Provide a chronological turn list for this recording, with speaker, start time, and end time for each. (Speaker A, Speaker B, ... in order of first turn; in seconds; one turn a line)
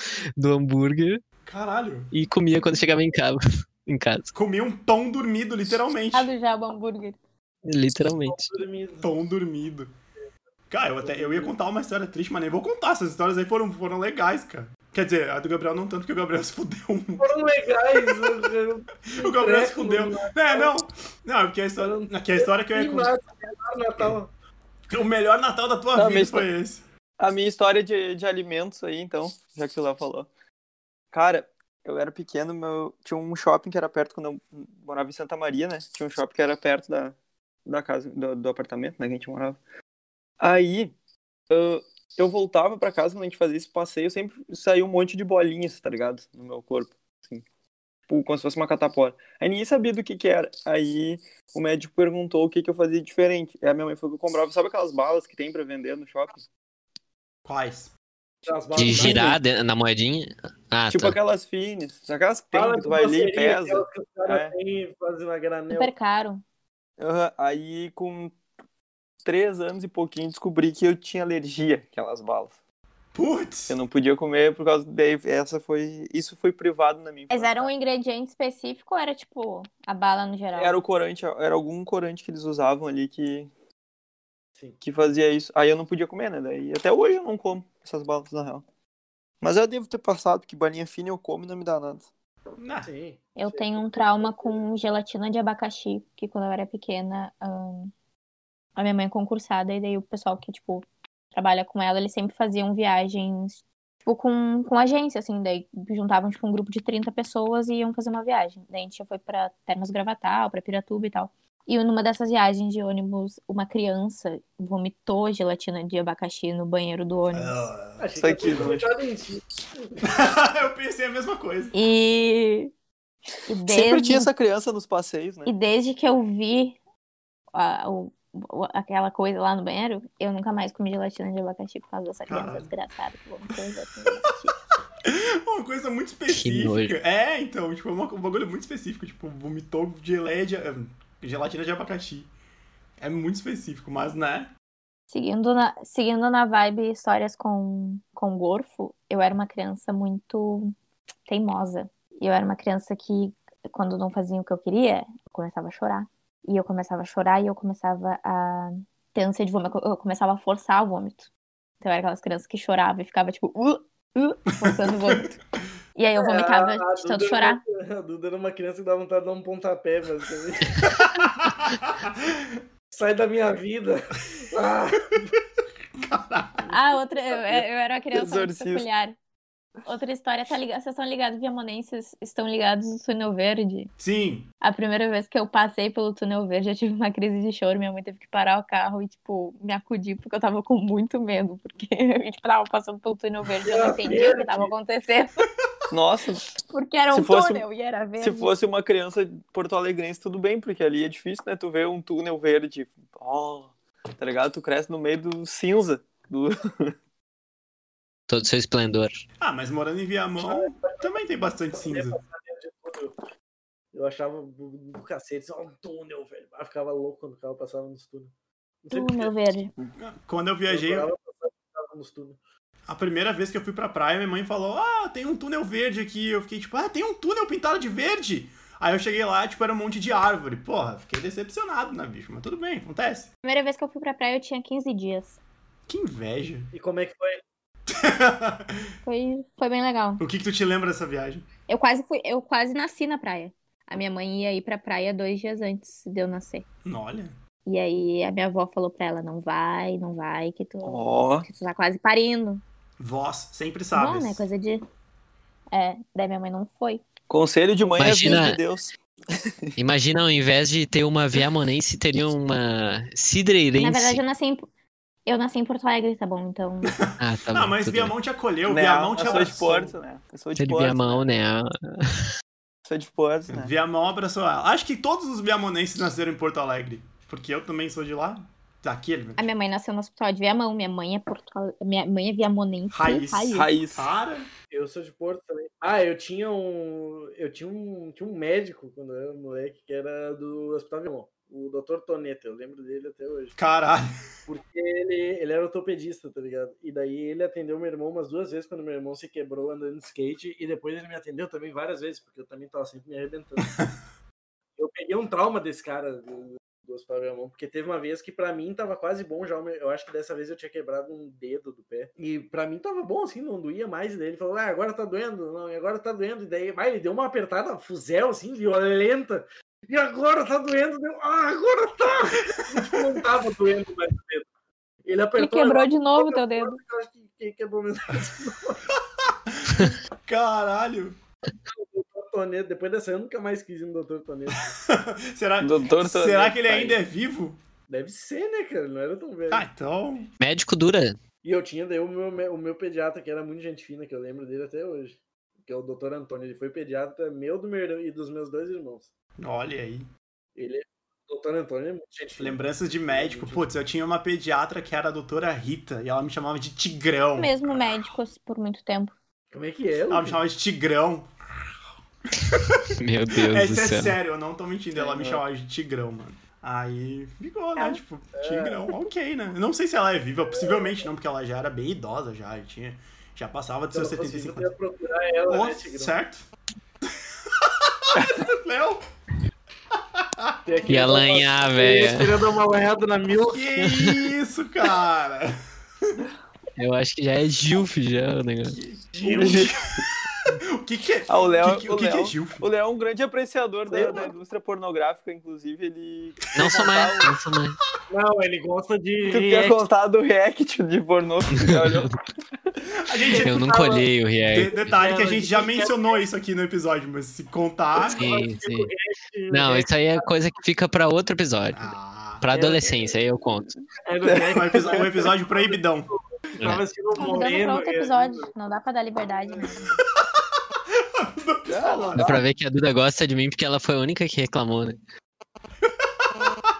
Speaker A: 0.4-1.2
Speaker B: 1.4-2.1
Speaker A: 2.1-4.3
Speaker B: 4.3-6.3
Speaker C: 6.1-7.2
Speaker A: 7.6-8.5
Speaker D: 8.2-9.1
Speaker B: 9.0-9.9
Speaker B: 10.7-17.3
Speaker D: 11.0-11.5
Speaker D: 17.2-20.7
Speaker B: 18.0-18.4
Speaker B: 19.0-23.1
Speaker D: 21.8-24.3
Speaker B: 24.9-26.8
Speaker E: 25.9-26.5
Speaker E: 27.2-30.3
Speaker E: 31.1-39.6
Speaker E: 40.4-40.9
Speaker E: 41.5-47.4
Speaker E: 48.1-56.4
Speaker B: 57.4-57.9
Speaker D: 58.4-59.4
Speaker A: 58.7-61.1
Speaker E: 60.9-64.5
Speaker D: 62.5-65.9
Speaker C: 65.7-66.4
Speaker E: 67.0-68.4
Speaker E: 69.2-72.5
Speaker B: 73.1-73.8
Speaker E: 73.7-77.7
Speaker C: 77.3-80.8
Speaker E: 80.5-83.5
Speaker E: 84.8-88.6
Speaker E: 89.4-92.1
Speaker B: 92.6-92.9
Speaker D: 92.8-94.5
Speaker C: 93.4-97.9
Speaker C: 98.8-117.7
Speaker B: 117.3-118.8
Speaker D: 118.0-120.0
Speaker E: 118.2-118.9
Speaker B: 120.0-121.7
Speaker C: 121.7-122.7
Speaker C: 123.5-124.3
Speaker E: 123.7-125.5
Speaker C: 125.4-126.8
Speaker C: 127.5-134.5
Speaker B: 132.3-132.7
Speaker B: 135.0-142.3
Speaker A: 136.3-136.9
Speaker B: 143.0-144.5
Speaker C: 145.1-150.7
Speaker C: 151.3-161.3
Speaker C: 161.8-165.4
Speaker B: 164.6-165.2
Speaker C: 165.9-167.6
Speaker D: 166.2-170.9
Speaker B: 170.8-172.6
Speaker D: 172.9-175.3
Speaker B: 176.0-176.7
Speaker C: 176.7-179.2
Speaker E: 178.1-178.9
Speaker C: 179.8-183.9
Speaker B: 184.0-184.5
Speaker C: 184.6-195.4
Speaker D: 193.6-194.7
Speaker E: 195.9-196.4
Speaker C: 196.7-198.5
Speaker E: 197.1-197.7
Speaker E: 198.2-206.9
Speaker A: 208.3-209.2
Speaker B: 209.4-212.2
Speaker D: 210.4-213.2
Speaker D: 213.9-218.3
Speaker D: 218.8-219.3
Speaker C: 218.9-219.7
Speaker B: 220.0-221.1
Speaker D: 220.7-222.4
Speaker B: 222.9-233.3
Speaker C: 233.4-235.4
Speaker B: 235.9-236.7
Speaker D: 236.7-237.4
Speaker B: 237.9-238.9
Speaker C: 239.0-240.2
Speaker B: 240.2-241.5
Speaker C: 241.7-246.6
Speaker B: 246.8-247.3
Speaker C: 247.7-252.6
Speaker E: 250.8-251.5
Speaker B: 253.0-254.4
Speaker C: 253.9-254.8
Speaker C: 255.7-257.0
Speaker E: 257.3-259.7
Speaker A: 258.0-258.6
Speaker A: 259.8-264.2
Speaker C: 263.8-264.6
Speaker C: 265.2-267.0
Speaker B: 266.8-269.9
Speaker A: 267.2-268.1
Speaker E: 268.6-271.2
Speaker A: 270.6-272.1
Speaker E: 272.9-273.7
Speaker B: 273.5-279.4
Speaker C: 279.4-283.7
Speaker B: 282.9-284.5
Speaker E: 283.5-284.1
Speaker D: 284.7-293.6
Speaker B: 293.6-294.1
Speaker D: 294.5-303.7
Speaker B: 303.6-303.9
Speaker D: 304.8-324.5
Speaker D: 325.0-328.8
Speaker C: 325.4-326.8
Speaker B: 329.2-331.1
Speaker D: 331.7-334.7
Speaker B: 334.5-337.6
Speaker E: 335.6-337.0
Speaker D: 337.9-339.7
Speaker B: 339.5-340.3
Speaker A: 340.4-341.2
Speaker D: 341.4-349.1
Speaker B: 349.4-350.1
Speaker D: 350.5-353.7
Speaker B: 352.4-358.0
Speaker C: 357.4-359.1
Speaker D: 359.5-360.4
Speaker B: 360.1-361.3
Speaker B: 362.4-374.7
Speaker A: 363.0-364.1
Speaker E: 364.9-365.4
Speaker D: 367.8-368.9
Speaker D: 370.5-371.0
Speaker D: 373.9-376.1
Speaker B: 375.5-376.4
Speaker B: 377.1-379.0
Speaker B: 379.9-380.6
Speaker D: 380.6-383.7
Speaker A: 380.9-382.3
Speaker B: 383.4-386.2
Speaker A: 383.8-384.2
Speaker A: 386.8-388.8
Speaker B: 388.7-392.6
Speaker D: 389.1-389.7
Speaker E: 389.2-389.7
Speaker E: 391.3-397.3
Speaker D: 393.9-394.3
Speaker A: 396.5-397.8
Speaker D: 398.1-399.8
Speaker E: 399.3-402.1
Speaker A: 401.6-402.1
Speaker B: 403.0-403.5
Speaker D: 403.2-404.1
Speaker A: 403.3-404.8
Speaker B: 404.5-408.2
Speaker D: 404.8-406.2
Speaker D: 408.0-410.3
Speaker A: 408.1-408.9
Speaker A: 409.5-413.7
Speaker B: 411.7-412.4
Speaker D: 412.5-413.1
Speaker D: 414.0-418.5
Speaker E: 414.2-415.1
Speaker B: 414.5-416.1
Speaker C: 417.1-420.0
Speaker B: 420.9-422.3
Speaker E: 421.6-422.4
Speaker A: 422.1-425.0
Speaker B: 425.8-426.4